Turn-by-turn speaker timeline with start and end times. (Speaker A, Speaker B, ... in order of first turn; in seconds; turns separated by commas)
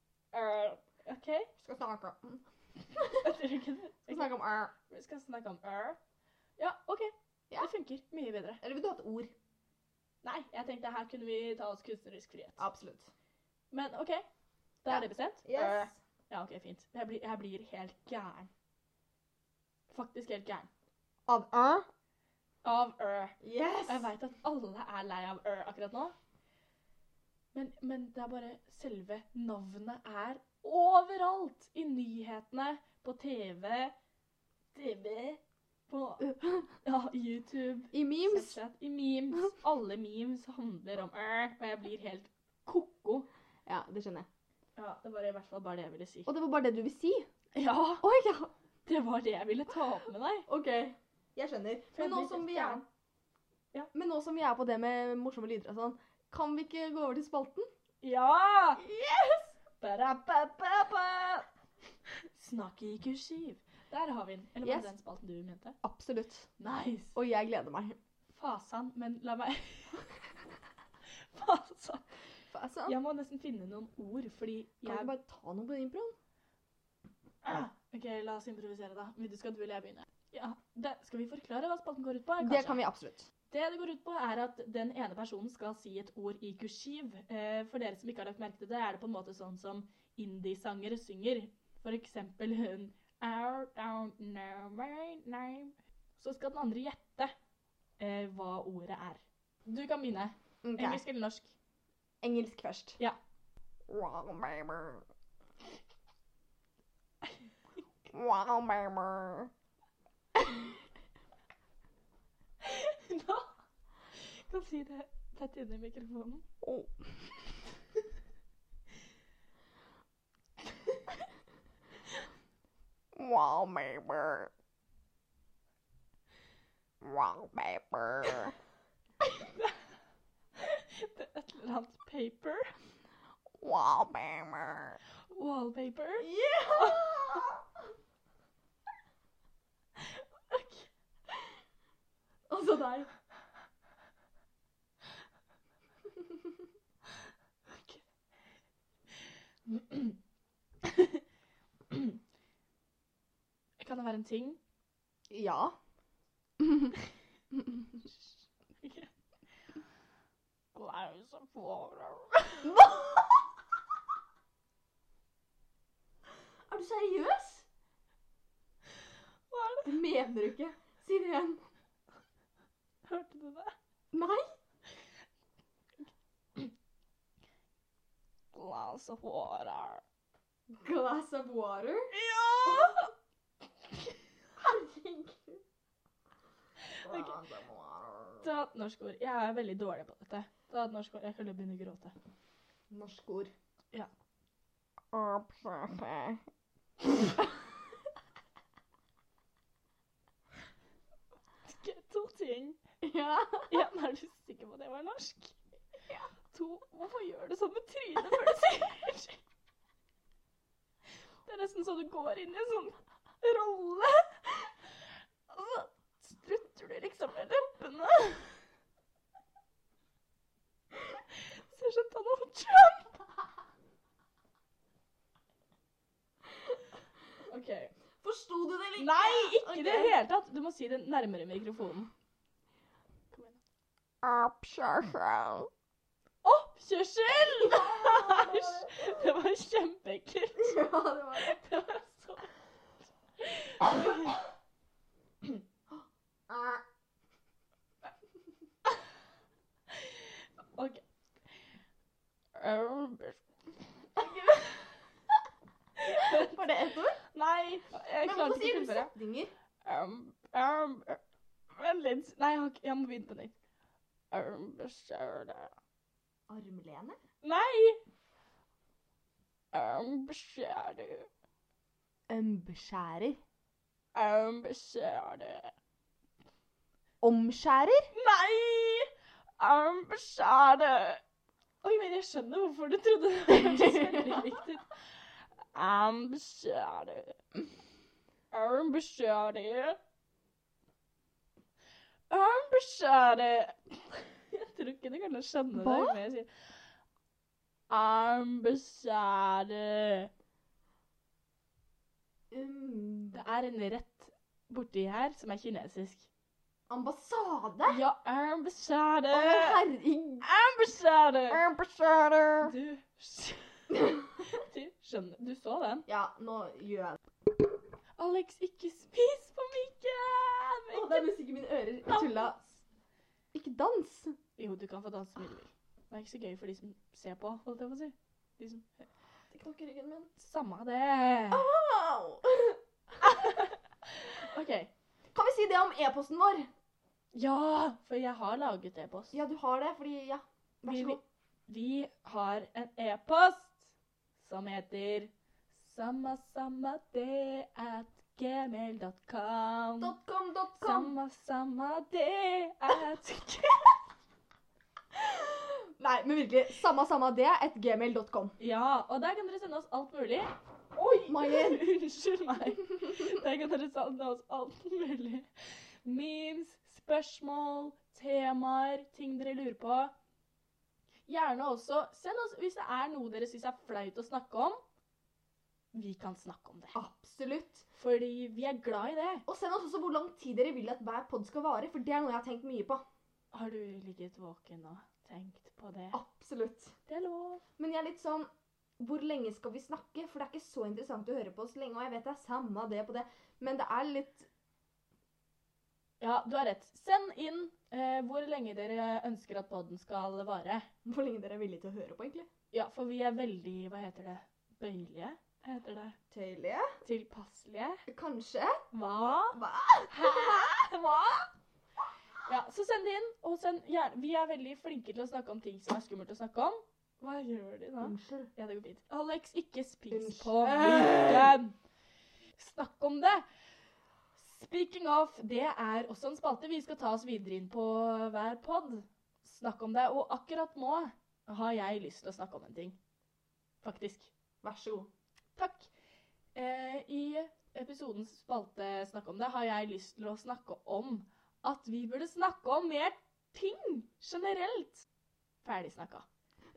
Speaker A: 0.4-1.5, Speaker B: 1.6-3.3, Speaker A: 3.0-4.3, Speaker B: 4.1-4.7, Speaker A: 4.9-6.0, Speaker A: 6.6-8.6, Speaker B: 8.6-9.3, Speaker A: 10.2-12.6, Speaker B: 12.6-13.1, Speaker A: 13.7-14.2, Speaker A: 14.8-18.5, Speaker B: 14.9-15.9, Speaker A: 19.9-20.7, Speaker B: 21.3-21.9, Speaker A: 22.6-26.1, Speaker B: 23.4-24.1, Speaker A: 27.5-33.9, Speaker A: 34.7-43.3, Speaker B: 37.9-38.6, Speaker B: 43.6-44.3, Speaker A: 44.8-46.3, Speaker B: 46.2-47.3, Speaker A: 47.5-48.0, Speaker B: 48.0-48.5, Speaker A: 48.9-50.5, Speaker B: 50.5-52.8, Speaker A: 51.9-52.8, Speaker B: 53.9-57.7, Speaker A: 58.0-58.8, Speaker B: 58.8-59.5, Speaker A: 59.8-61.5, Speaker A: 62.2-65.8, Speaker B: 64.6-64.9, Speaker B: 65.8-66.5, Speaker A: 66.6-67.2, Speaker B: 67.1-68.0, Speaker A: 68.3-70.1, Speaker A: 71.0-72.1, Speaker B: 72.5-73.0, Speaker A: 72.8-75.1, Speaker B: 74.8-76.1, Speaker A: 77.4-82.8, Speaker B: 82.4-83.3, Speaker A: 83.5-97.3, Speaker A: 98.0-101.5, Speaker B: 100.6-101.0, Speaker B: 102.2-103.0, Speaker B: 103.9-105.0, Speaker B: 108.1-109.5, Speaker A: 112.6-113.5, Speaker A: 114.1-116.4, Speaker B: 116.6-117.4, Speaker B: 123.1-124.5, Speaker B: 127.0-128.5, Speaker A: 129.4-129.7, Speaker A: 130.6-132.7, Speaker B: 133.6-135.0, Speaker A: 135.3-137.4, Speaker B: 136.2-137.6, Speaker A: 139.9-140.9, Speaker B: 142.5-143.1, Speaker A: 147.7-148.0, Speaker A: 149.7-150.2, Speaker A: 150.8-151.2, Speaker A: 151.9-152.2, Speaker A: 153.8-154.6, Speaker B: 155.3-155.8, Speaker B: 156.6-156.9, Speaker B: 157.5-158.0, Speaker A: 158.8-159.1, Speaker A: 160.7-162.7, Speaker B: 162.6-163.4, Speaker B: 166.7-167.7, Speaker A: 169.5-169.9, Speaker B: 169.8-171.7, Speaker A: 173.1-173.7, Speaker B: 174.1-174.5, Speaker A: 178.5-180.0, Speaker B: 180.7-182.1, Speaker A: 182.1-183.1, Speaker B: 182.6-183.0, Speaker B: 184.6-185.6, Speaker A: 186.8-187.4, Speaker B: 187.0-188.4, Speaker A: 188.4-192.1, Speaker B: 192.9-193.5, Speaker B: 195.1-196.4, Speaker A: 201.7-202.8, Speaker B: 203.0-203.7, Speaker A: 203.7-205.6, Speaker A: 206.5-209.4, Speaker A: 211.4-214.7, Speaker A: 215.5-218.6, Speaker A: 221.3-223.2, Speaker A: 227.5-227.9, Speaker B: 228.2-230.2, Speaker A: 229.0-232.1, Speaker A: 233.3-233.6, Speaker B: 234.2-235.7, Speaker A: 236.4-242.5, Speaker B: 237.4-239.2, Speaker B: 240.6-241.6, Speaker A: 243.4-244.4, Speaker B: 246.5-246.8, Speaker A: 249.9-251.0, Speaker A: 252.5-253.4, Speaker A: 254.1-254.9, Speaker A: 256.0-256.6, Speaker B: 256.1-257.2, Speaker A: 257.2-259.1, Speaker B: 258.2-259.5, Speaker A: 259.8-263.5, Speaker A: 264.3-265.7, Speaker B: 266.5-267.2, Speaker A: 267.4-268.0, Speaker A: 269.7-271.3, Speaker B: 272.3-273.4, Speaker A: 274.1-275.7, Speaker B: 277.2-278.1, Speaker A: 278.1-281.2, Speaker A: 281.8-285.0, Speaker B: 283.5-284.4, Speaker A: 285.6-287.4, Speaker A: 288.5-290.0, Speaker A: 292.3-296.5, Speaker B: 295.7-296.2, Speaker A: 297.9-300.3, Speaker B: 302.5-303.4, Speaker A: 303.3-306.3, Speaker B: 306.9-308.0, Speaker A: 307.9-309.8, Speaker B: 309.3-310.4, Speaker A: 310.4-311.7, Speaker B: 311.5-312.7, Speaker A: 312.6-316.1, Speaker B: 316.1-317.2, Speaker A: 318.2-321.3, Speaker B: 320.9-322.6, Speaker A: 322.1-322.5, Speaker B: 323.5-324.4, Speaker A: 324.6-329.1, Speaker B: 329.5-330.3, Speaker A: 330.4-331.7, Speaker B: 331.5-332.8, Speaker A: 333.2-334.9, Speaker B: 335.3-336.7, Speaker A: 337.3-339.4, Speaker B: 339.3-341.2, Speaker A: 340.8-350.1, Speaker B: 350.0-351.1, Speaker A: 350.8-354.0, Speaker B: 355.1-358.6, Speaker A: 358.6-370.1, Speaker B: 361.3-361.8, Speaker A: 371.3-374.8, Speaker A: 375.9-377.0, Speaker B: 376.9-377.8, Speaker A: 377.9-379.4, Speaker B: 379.5-383.0, Speaker A: 383.5-386.2, Speaker B: 386.1-386.9, Speaker A: 387.1-387.6, Speaker B: 387.8-394.5, Speaker A: 396.2-400.9, Speaker B: 401.0-402.5, Speaker A: 402.7-406.2, Speaker B: 406.3-406.9, Speaker A: 407.0-408.0, Speaker B: 408.1-408.8, Speaker A: 408.9-411.5, Speaker B: 409.5-410.7, Speaker A: 412.4-421.8, Speaker B: 418.0-418.5, Speaker B: 420.1-421.6, Speaker A: 422.6-423.4, Speaker A: 424.4-433.0, Speaker A: 433.8-434.3, Speaker B: 434.6-435.1, Speaker A: 435.6-435.9, Speaker A: 436.5-445.0, Speaker A: 445.6-446.2